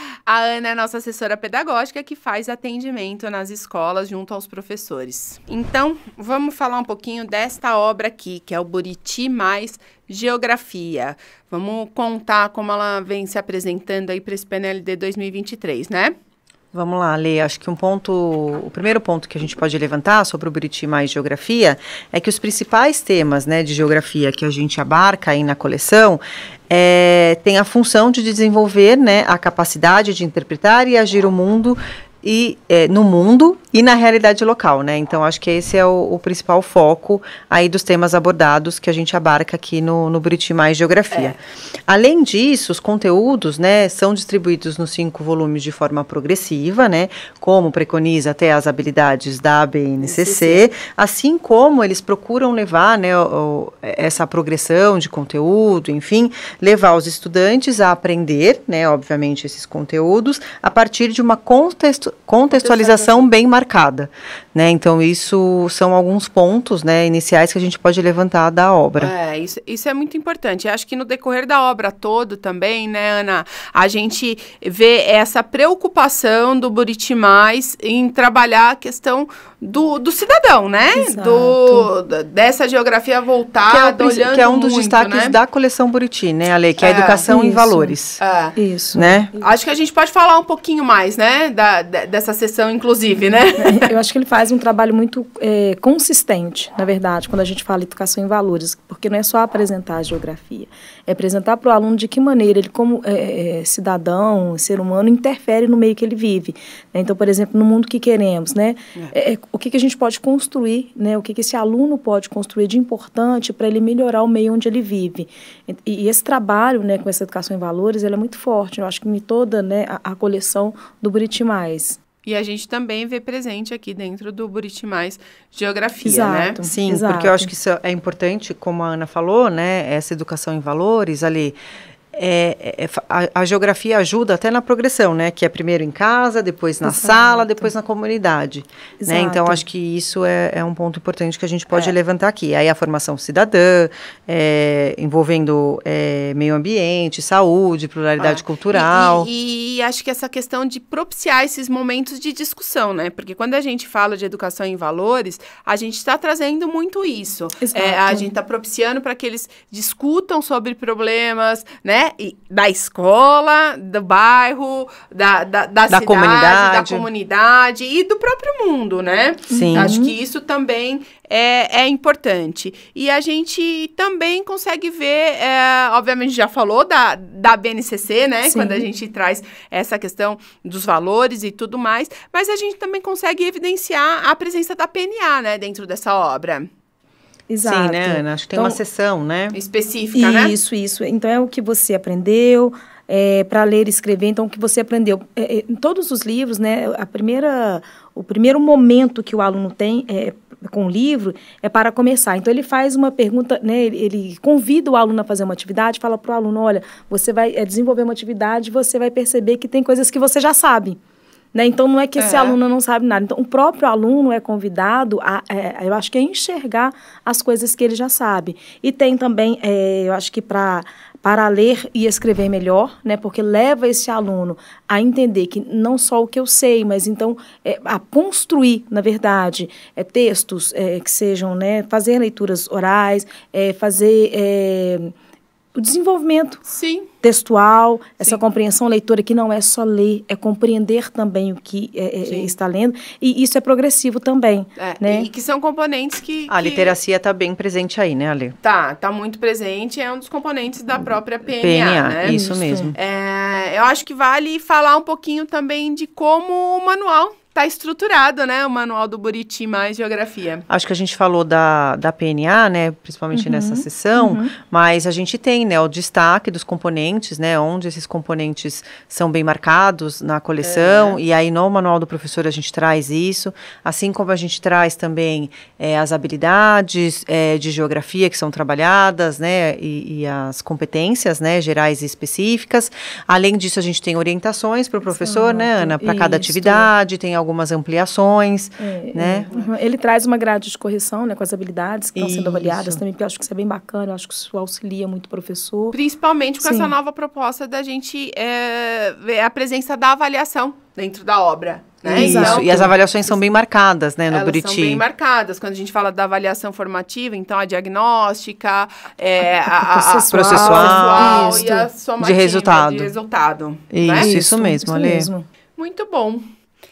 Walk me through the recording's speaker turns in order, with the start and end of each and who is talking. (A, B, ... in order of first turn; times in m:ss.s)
0:00.3-0:16.1 A
0:16.7-0:41.4 B
0:41.1-0:41.4 A
0:41.9-1:09.1 B
0:50.0-0:50.7 A
1:02.5-1:03.3 A
1:09.0-1:25.4 A
1:20.9-1:21.9 C
1:23.7-1:28.2 B
1:26.8-1:27.3 A
1:27.3-1:28.0 C
1:28.2-1:28.6 A
1:28.6-1:29.3 C
1:29.0-1:29.4 B
1:29.4-1:33.9 A
1:33.6-2:02.0 C
2:02.2-2:06.6 A
2:06.0-2:07.5 C
2:06.6-2:11.6 B
2:12.1-2:29.3 B
2:16.8-2:17.7 C
2:19.0-2:19.6 C
2:28.2-3:06.7 A
2:37.6-2:38.3 C
2:45.9-2:47.1 B
2:49.5-2:50.1 C
2:49.5-2:50.0 B
2:58.4-2:58.9 C
3:07.5-3:08.8 C
3:07.6-3:09.6 B
3:09.5-3:10.6 A
3:10.1-3:31.0 C
3:31.5-3:55.1 C
3:32.2-3:32.6 A
3:55.8-3:56.6 C
3:56.7-3:57.1 A
3:57.2-4:05.3 C
4:02.2-4:02.5 A
4:04.8-4:07.0 A
4:06.5-4:08.6 B
4:08.6-4:12.4 A
4:11.6-4:13.0 B
4:12.2-4:12.9 C
4:13.0-4:20.6 A
4:20.7-4:49.5 B
4:23.3-4:24.6 C
4:30.6-4:31.2 A
4:45.1-4:46.9 C
4:48.8-4:56.0 C
4:52.2-4:53.0 B
4:55.9-5:03.4 A
4:56.6-4:57.0 C
5:02.0-5:02.9 C
5:02.1-5:05.0 B
5:04.3-5:14.3 A
5:09.4-5:11.9 C
5:10.3-5:11.7 B
5:12.2-5:13.1 B
5:13.9-5:15.3 B
5:14.2-5:15.5 C
5:15.8-5:16.4 A